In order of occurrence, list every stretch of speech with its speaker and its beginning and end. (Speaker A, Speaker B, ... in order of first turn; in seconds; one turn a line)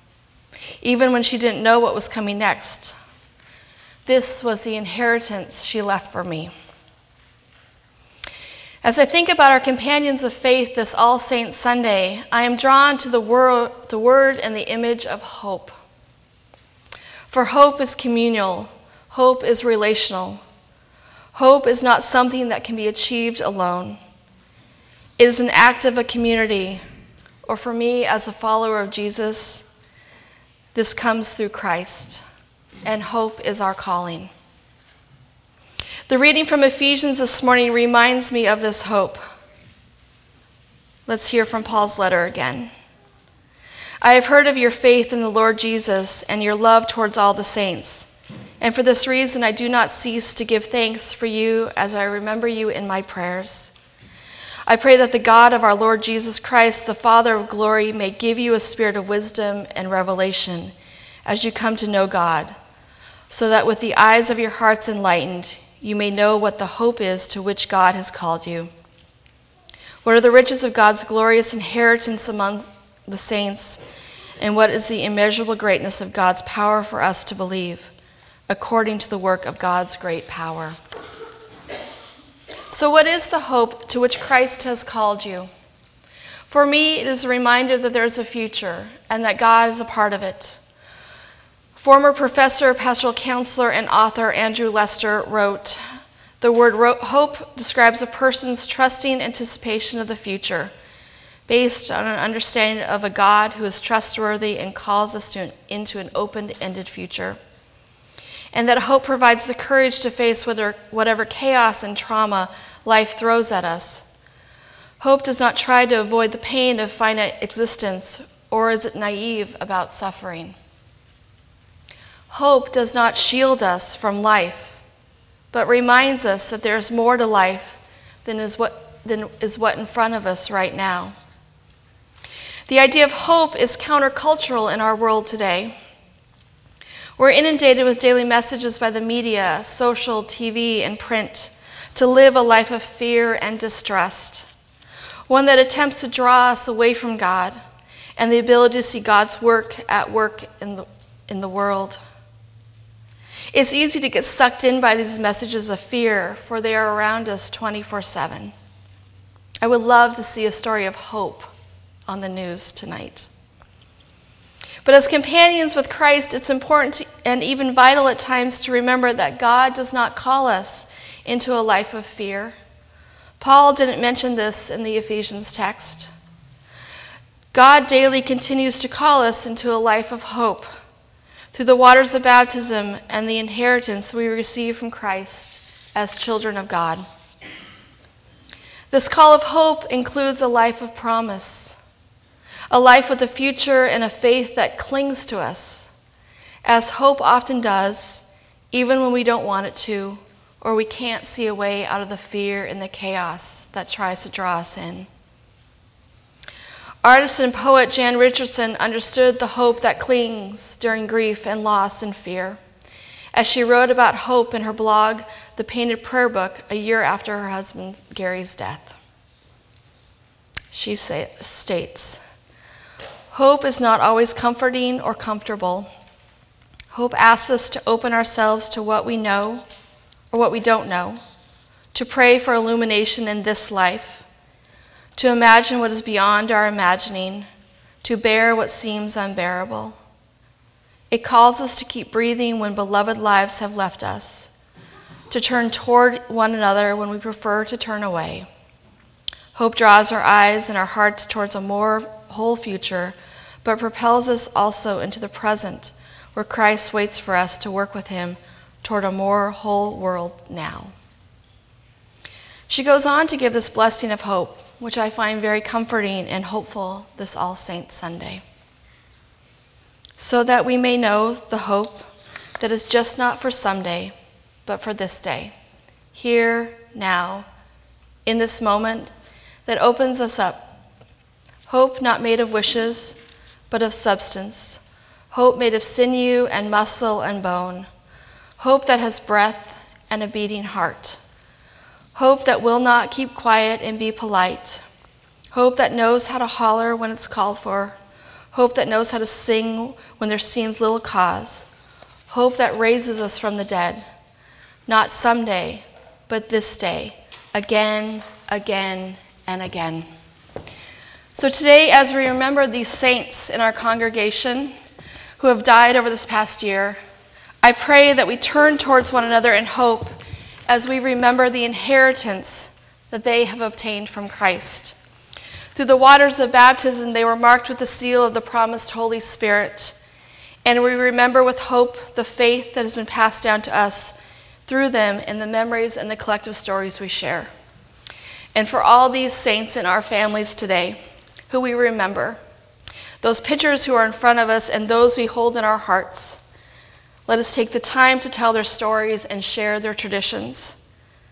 Speaker A: 0.8-3.0
Speaker A: 4.0-6.5
Speaker A: 8.8-15.7
Speaker A: 17.3-20.4
Speaker A: 21.3-24.0
Speaker A: 25.2-26.8
Speaker A: 27.4-29.7
Speaker A: 30.7-32.2
Speaker A: 32.8-34.3
Speaker A: 36.1-39.2
Speaker A: 41.1-42.7
Speaker A: 44.0-48.1
Speaker A: 48.6-53.7
Speaker A: 54.7-60.7
Speaker A: 61.2-62.5
Speaker A: 63.3-68.7
Speaker A: 70.0-73.8
Speaker A: 74.4-77.9
Speaker A: 78.5-80.8
Speaker A: 82.7-85.5
Speaker A: 86.5-90.6
Speaker A: 91.7-95.8
Speaker A: 96.4-100.7
Speaker A: 101.5-107.4
Speaker A: 108.5-114.1
Speaker A: 115.0-120.5
Speaker A: 122.3-124.8
Speaker A: 125.5-131.1
Speaker A: 132.7-135.7
Speaker A: 137.2-144.5
Speaker A: 145.3-147.6
Speaker A: 148.2-152.0
Speaker A: 153.5-158.5
Speaker A: 159.6-161.5
Speaker A: 162.1-163.3
Speaker A: 164.8-172.6
Speaker A: 173.4-176.1
Speaker A: 177.5-180.7
Speaker A: 181.5-187.0
Speaker A: 188.9-191.8
Speaker A: 192.7-195.9
Speaker A: 196.6-205.1
Speaker A: 207.0-212.6
Speaker A: 213.3-219.0
Speaker A: 220.7-222.2
Speaker A: 223.3-225.9
Speaker A: 226.9-229.6
Speaker A: 230.3-231.2
Speaker A: 231.9-234.2
Speaker A: 235.1-237.5
Speaker A: 238.0-240.0
Speaker A: 241.1-244.5
Speaker A: 245.3-248.5
Speaker A: 249.5-260.9
Speaker A: 262.7-268.4
Speaker A: 270.2-272.0
Speaker A: 272.6-274.1
Speaker A: 274.6-275.5
Speaker A: 276.1-277.5
Speaker A: 278.2-279.1
Speaker A: 279.6-280.7
Speaker A: 281.7-283.2
Speaker A: 283.7-287.9
Speaker A: 288.6-291.2
Speaker A: 292.1-294.8
Speaker A: 295.5-298.0
Speaker A: 298.5-301.7
Speaker A: 302.3-304.0
Speaker A: 304.9-310.1
Speaker A: 311.3-314.7
Speaker A: 315.4-317.0
Speaker A: 317.6-320.1
Speaker A: 320.7-325.0
Speaker A: 325.7-329.9
Speaker A: 330.6-337.5
Speaker A: 338.5-341.0
Speaker A: 341.5-342.4
Speaker A: 343.2-346.4
Speaker A: 347.3-350.8